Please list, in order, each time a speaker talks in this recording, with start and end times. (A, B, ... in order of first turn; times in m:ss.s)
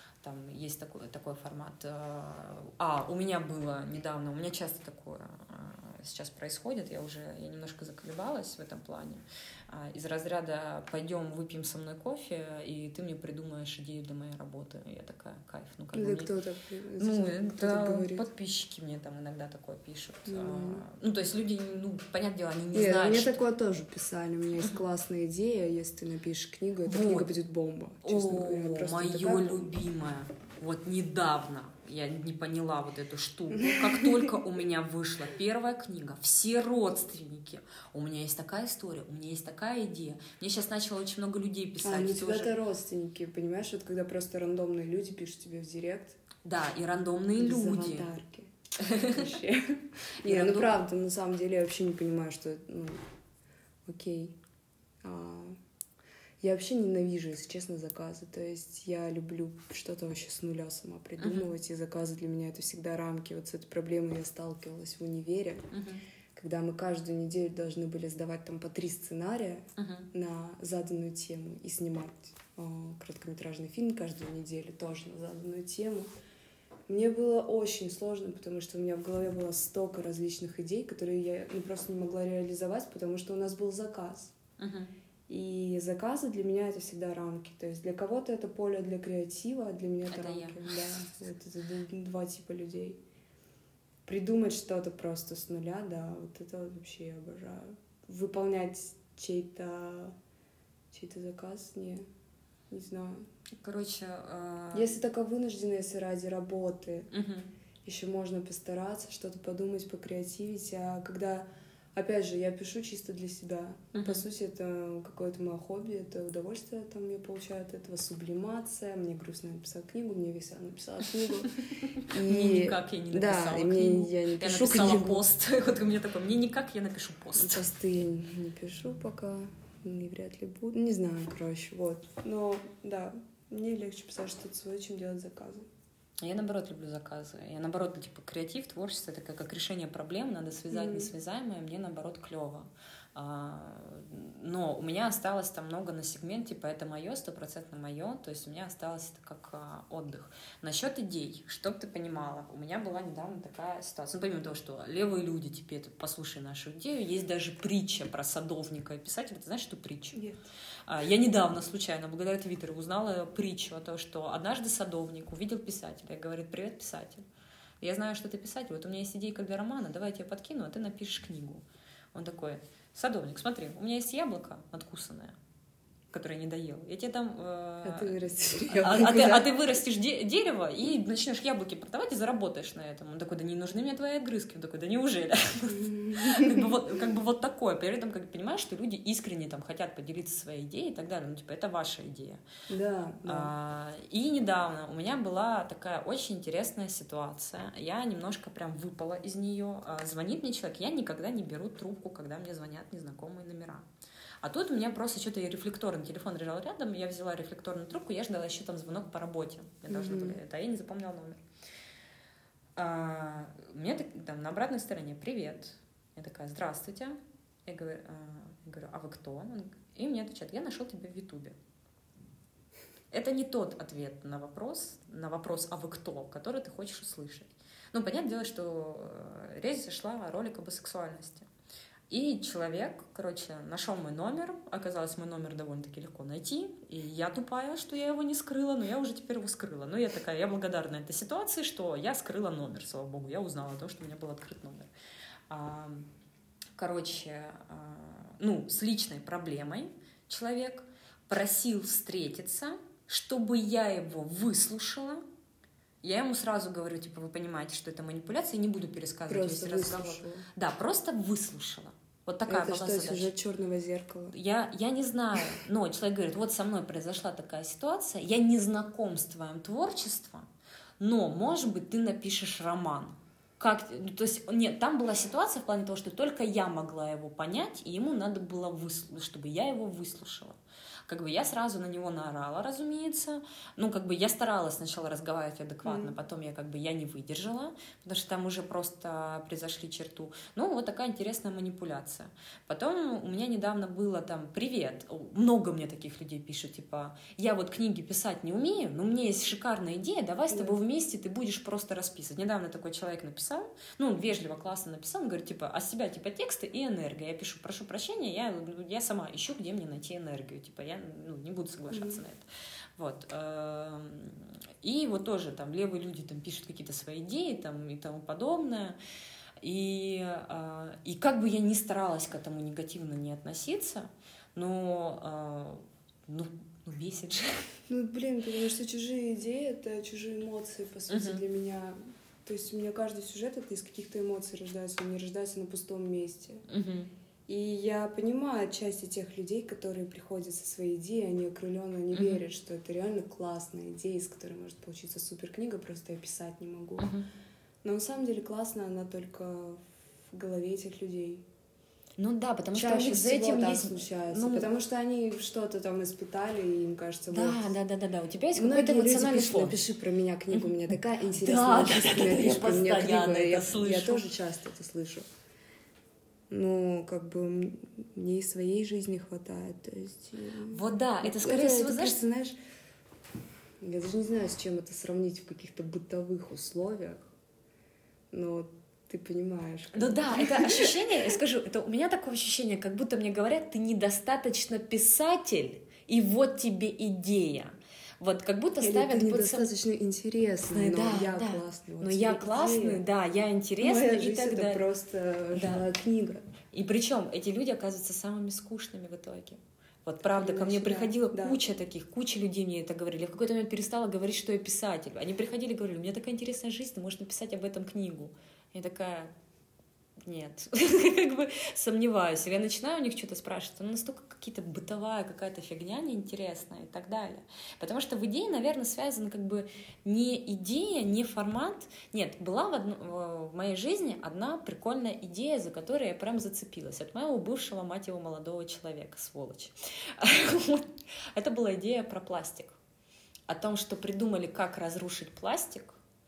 0:00.2-0:16.3 A
0:15.9-0:18.3 B
0:17.0-0:23.4 A
0:20.3-0:20.9 B
0:22.7-0:29.7 B
0:26.8-0:27.3 A
0:28.0-0:42.5 A
0:33.5-0:34.4 B
0:41.8-0:46.2 B
0:46.4-0:48.1 A
0:47.4-0:53.0 B
0:48.8-0:49.2 A
0:50.2-0:50.8 A
0:53.9-0:54.4 B
0:55.0-0:55.6 B
0:56.4-1:05.7 B
1:01.2-1:01.5 A
1:05.7-1:06.0 A
1:06.3-1:16.1 B
1:09.8-1:10.1 A
1:16.9-1:24.3 B
1:24.6-1:24.9 A
1:25.3-1:33.0 B
1:30.1-1:30.9 A
1:34.0-1:40.2 B
1:40.9-1:42.0 B
1:42.7-1:43.2 B
1:43.6-1:44.9 A
1:44.7-1:47.1 B
1:47.1-1:47.5 A
1:47.8-2:05.2 B
1:54.0-1:54.2 A
2:01.8-2:07.7 A
2:07.3-2:15.7 B
2:16.2-2:40.2 A
2:20.7-2:21.1 B
2:40.1-2:40.4 B
2:40.9-2:47.2 A
2:47.8-2:55.4 A
2:56.1-2:58.2 A
2:57.8-2:59.5 B
2:58.7-3:12.4 A
3:05.7-3:06.7 B
3:12.7-3:13.5 B
3:13.3-3:23.8 A
3:24.4-3:31.4 A
3:29.9-3:30.4 B
3:32.8-3:41.6 A
3:43.1-3:51.5 A
3:52.1-4:04.9 A
4:05.5-4:06.1 A
4:06.8-4:15.2 A
4:16.0-4:23.3 A
4:19.3-4:20.4 B
4:22.5-4:24.4 B
4:24.3-4:30.5 A
4:31.0-5:12.4 A
4:45.8-4:46.1 B
5:00.5-5:00.8 B
5:11.9-5:12.2 B
5:13.0-5:19.0 A
5:19.6-5:27.7 A
5:27.9-5:36.6 B
5:31.1-5:31.4 A
5:36.7-5:37.1 A
5:37.5-5:47.1 B
5:42.1-5:42.4 A
5:47.0-5:47.3 A
5:47.8-5:51.4 B
5:52.2-5:54.7 A
5:52.7-5:57.7 B
5:57.3-5:59.8 A
5:58.6-6:05.3 B
6:01.4-6:04.3 A
6:06.5-6:12.6 B
6:10.7-6:12.2 A
6:13.8-6:17.3 B
6:18.3-6:21.0 B
6:19.9-6:29.7 A
6:28.8-6:33.0 B
6:30.7-6:34.8 A
6:33.8-6:36.5 B
6:35.6-6:35.8 A
6:36.7-6:49.3 A
6:40.2-6:41.6 B
6:50.3-7:12.8 A
7:13.5-7:16.0 A